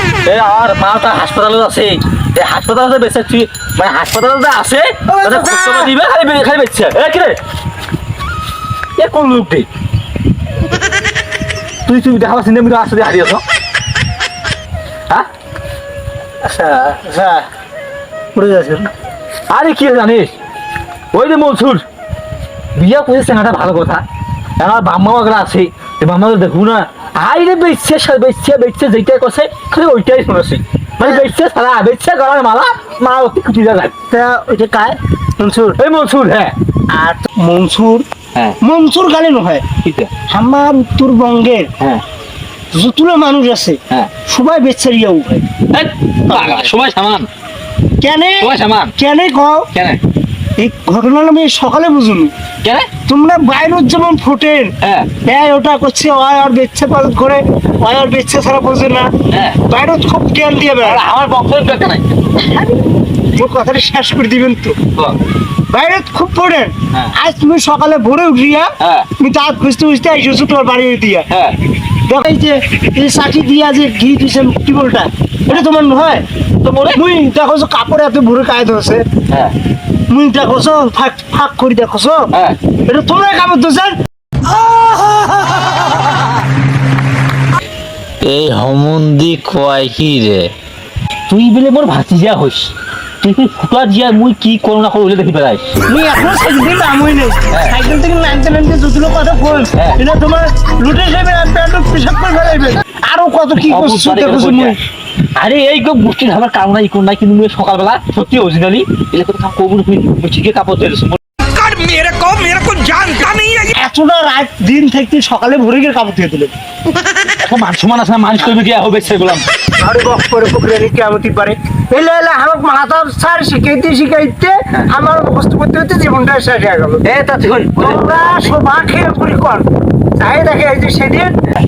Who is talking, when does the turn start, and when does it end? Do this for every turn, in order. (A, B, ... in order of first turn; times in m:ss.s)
0:00.2-0:07.4 A
0:05.1-0:05.9 B
0:09.0-0:09.7 A
0:11.9-0:13.4 A
0:16.5-0:17.5 B
0:18.3-0:18.9 B
0:19.5-0:20.4 A
0:21.1-0:21.8 A
0:22.8-0:24.0 A
0:24.6-0:33.9 A
0:34.1-0:35.8 B
0:35.8-0:36.5 A
0:36.9-0:38.1 B
0:38.6-0:39.6 B
0:39.8-0:40.1 A
0:40.3-0:41.7 B
0:42.7-0:45.5 B
0:45.7-0:47.3 A
0:46.3-0:46.7 B
0:48.0-0:49.7 B
0:48.4-0:48.9 A
0:49.7-0:50.0 A
0:50.6-0:52.3 B
0:53.1-0:54.7 B
0:54.8-0:55.1 A
0:55.2-0:59.1 B
0:59.3-0:59.6 A
0:59.7-1:01.0 B
1:00.8-1:02.2 A
1:02.5-1:04.8 B
1:05.7-1:11.3 B
1:08.8-1:09.1 A
1:11.3-1:11.6 A
1:12.1-1:16.2 B
1:16.6-1:17.0 A
1:16.9-1:19.0 B
1:19.3-1:19.5 A
1:20.1-1:22.3 B
1:22.3-1:22.6 A
1:22.9-1:24.0 B
1:28.2-1:30.5 C
1:31.3-1:35.7 A
1:35.9-1:44.8 B
1:37.5-1:37.8 A
1:39.7-1:40.0 A
1:43.6-1:44.8 A
1:45.4-1:51.2 A
1:51.6-1:53.7 D
1:53.7-1:56.5 B
1:57.4-1:59.4 A
1:59.8-2:07.0 B
2:07.0-2:08.6 A
2:07.8-2:11.4 B